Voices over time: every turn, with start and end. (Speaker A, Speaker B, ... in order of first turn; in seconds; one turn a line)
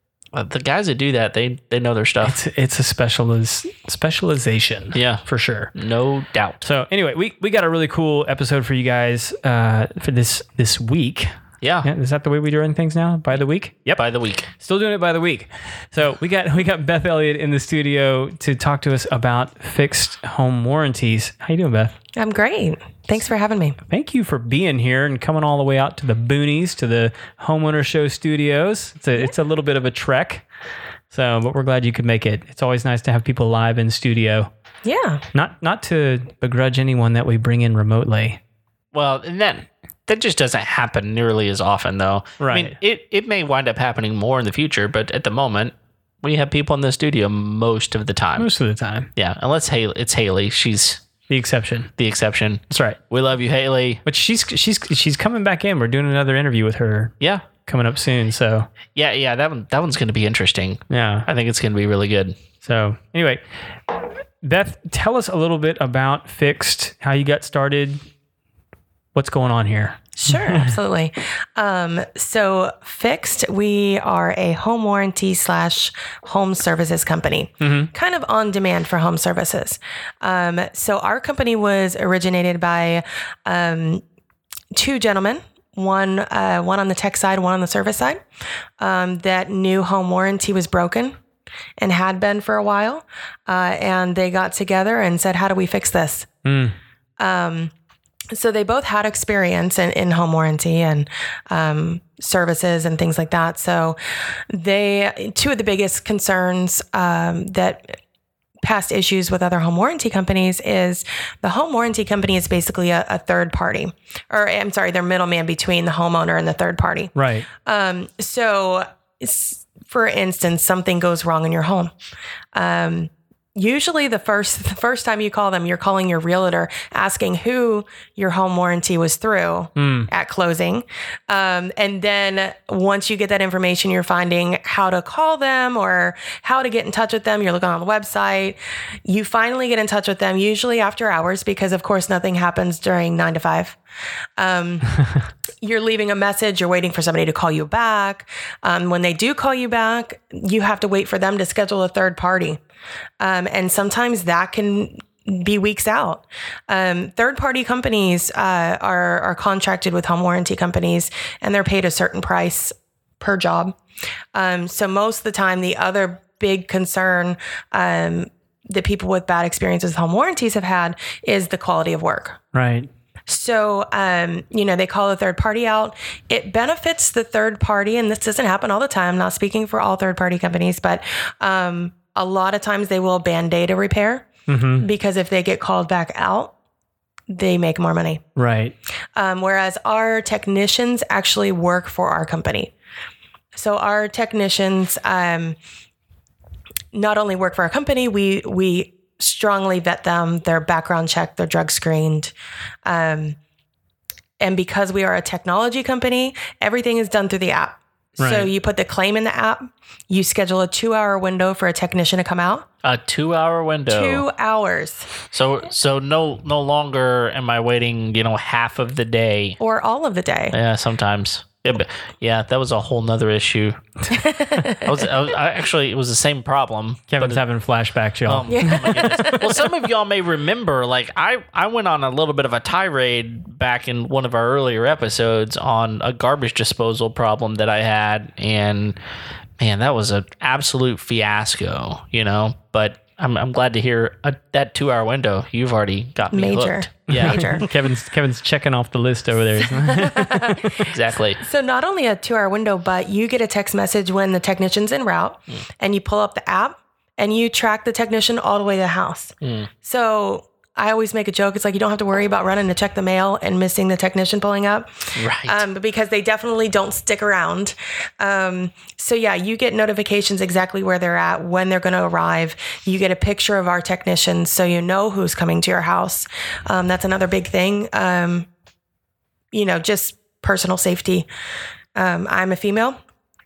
Speaker A: 0.3-2.4
Speaker B: 2.2-5.7
Speaker A: 4.9-6.6
Speaker B: 6.6-14.0
Speaker A: 11.6-11.9
Speaker A: 14.0-14.5
Speaker B: 14.6-21.9
Speaker C: 22.2-23.8
Speaker B: 23.9-30.5
Speaker B: 31.1-34.5
Speaker C: 34.8-35.2
Speaker B: 35.3-38.4
Speaker A: 38.9-48.5
Speaker B: 42.4-42.8
Speaker B: 48.4-49.1
Speaker A: 49.2-51.0
Speaker B: 51.3-51.9
Speaker A: 52.0-54.0
Speaker B: 52.7-53.0
Speaker B: 54.1-58.7
Speaker A: 59.0-62.4
Speaker B: 60.9-61.3
Speaker B: 62.6-63.4
Speaker B: 64.4-68.0
Speaker B: 69.2-70.7
Speaker C: 70.2-84.0
Speaker B: 77.6-77.9
Speaker C: 84.7-88.2
Speaker C: 88.8-91.2
Speaker C: 91.8-96.3
Speaker B: 96.5-96.8
Speaker C: 97.2-97.7
Speaker C: 98.3-108.0
Speaker C: 108.6-121.9
Speaker B: 117.2-117.5
Speaker C: 122.5-143.8
Speaker B: 129.8-130.1
Speaker C: 144.4-145.0
Speaker C: 145.6-152.6
Speaker C: 153.2-163.8
Speaker C: 164.3-172.4
Speaker B: 172.5-172.9
Speaker C: 173.3-186.5
Speaker B: 184.5-184.9
Speaker C: 187.3-188.2
Speaker B: 188.4-188.7
Speaker C: 189.2-192.7
Speaker C: 193.5-195.6
Speaker C: 196.9-202.3
Speaker C: 202.8-203.4
Speaker C: 204.4-212.7
Speaker B: 208.2-208.5
Speaker A: 212.8-214.2
Speaker C: 213.9-215.1
Speaker A: 215.3-219.6
Speaker C: 219.6-220.6
Speaker A: 220.5-223.8
Speaker C: 224.1-225.1
Speaker A: 224.7-227.4
Speaker B: 227.1-229.4
Speaker A: 228.3-239.0
Speaker C: 228.5-229.7
Speaker A: 239.6-247.7
Speaker C: 246.3-247.7
Speaker B: 247.1-250.9
Speaker C: 249.7-278.5
Speaker A: 250.8-251.4
Speaker A: 259.4-259.7
Speaker A: 265.2-265.6
Speaker C: 279.5-281.3
Speaker C: 281.9-283.0